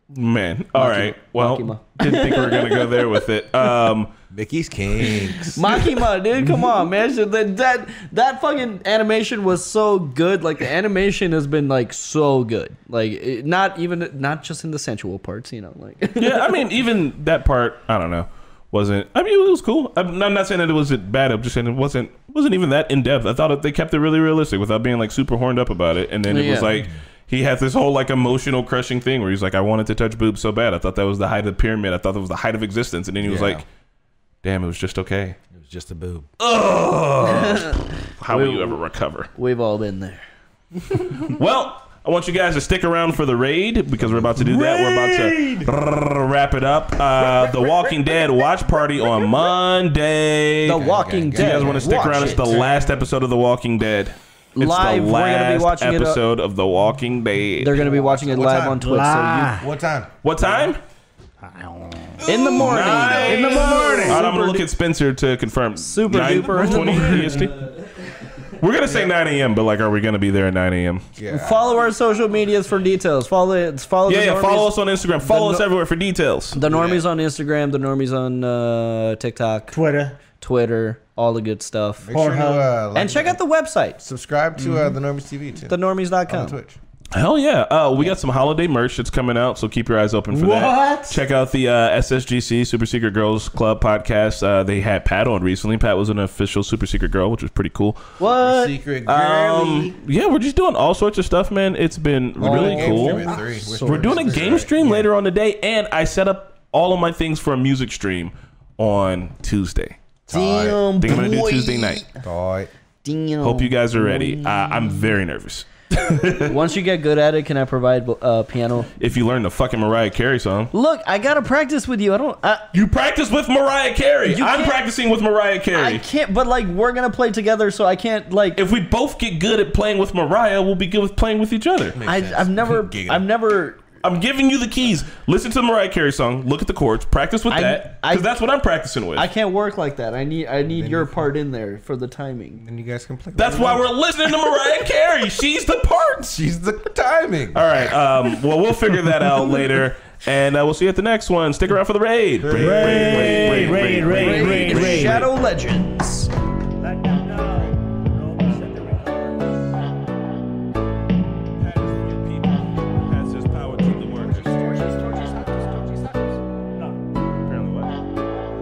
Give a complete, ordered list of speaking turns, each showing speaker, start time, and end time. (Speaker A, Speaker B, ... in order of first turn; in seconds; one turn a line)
Speaker A: 0.1-4.1
Speaker B: 0.7-3.2
Speaker C: 4.3-5.8
Speaker B: 5.4-16.6
Speaker A: 16.2-33.6
Speaker B: 26.3-26.8
Speaker C: 33.2-33.6
Speaker A: 34.4-35.4
Speaker C: 35.5-36.3
Speaker A: 36.4-39.3
Speaker B: 37.2-38.8
Speaker B: 39.3-40.2
Speaker A: 41.1-50.8
Speaker C: 44.0-44.3
Speaker D: 44.4-45.7
Speaker D: 47.2-48.1
Speaker D: 49.0-49.3
Speaker B: 50.6-52.6
Speaker C: 50.7-52.7
Speaker A: 51.4-57.8
Speaker B: 54.5-56.2
Speaker B: 57.6-59.6
Speaker C: 57.8-58.9
Speaker D: 58.8-59.7
Speaker C: 59.6-60.1
Speaker A: 60.2-60.8
Speaker D: 61.4-64.3
Speaker B: 62.2-64.7
Speaker A: 62.3-67.5
Speaker B: 65.8-68.2
Speaker C: 66.6-67.1
Speaker A: 68.5-71.0
Speaker C: 71.2-71.7
Speaker B: 71.3-75.7
Speaker A: 74.1-76.6
Speaker B: 76.5-79.8
Speaker C: 76.5-77.0
Speaker D: 79.7-80.2
Speaker B: 80.4-82.1
Speaker C: 82.0-83.4
Speaker D: 82.1-82.7
Speaker B: 82.9-84.0
Speaker C: 84.0-86.8
Speaker B: 85.7-86.6
Speaker A: 87.1-98.1
Speaker D: 90.3-91.2
Speaker B: 98.2-98.8
Speaker C: 98.2-100.0
Speaker A: 99.0-110.0
Speaker B: 102.4-104.6
Speaker C: 102.4-105.1
Speaker C: 110.3-110.8
Speaker B: 110.3-112.1
Speaker A: 111.0-112.0
Speaker C: 112.2-112.7
Speaker B: 113.0-115.1
Speaker A: 113.4-116.6
Speaker B: 116.4-118.9
Speaker A: 119.0-120.7
Speaker B: 120.7-122.7
Speaker A: 122.7-126.0
Speaker B: 124.2-124.8
Speaker B: 125.7-128.6
Speaker A: 128.6-132.0
Speaker C: 131.9-133.3
Speaker B: 132.0-133.8
Speaker A: 134.0-139.3
Speaker B: 137.5-138.3
Speaker B: 139.1-142.6
Speaker C: 140.7-141.1
Speaker C: 142.6-143.9
Speaker A: 143.3-146.3
Speaker C: 146.3-147.7
Speaker A: 147.5-155.3
Speaker C: 152.4-154.0
Speaker D: 152.5-155.3
Speaker B: 154.1-156.3
Speaker D: 156.8-159.7
Speaker A: 161.6-164.6
Speaker D: 164.3-167.0
Speaker A: 167.4-168.0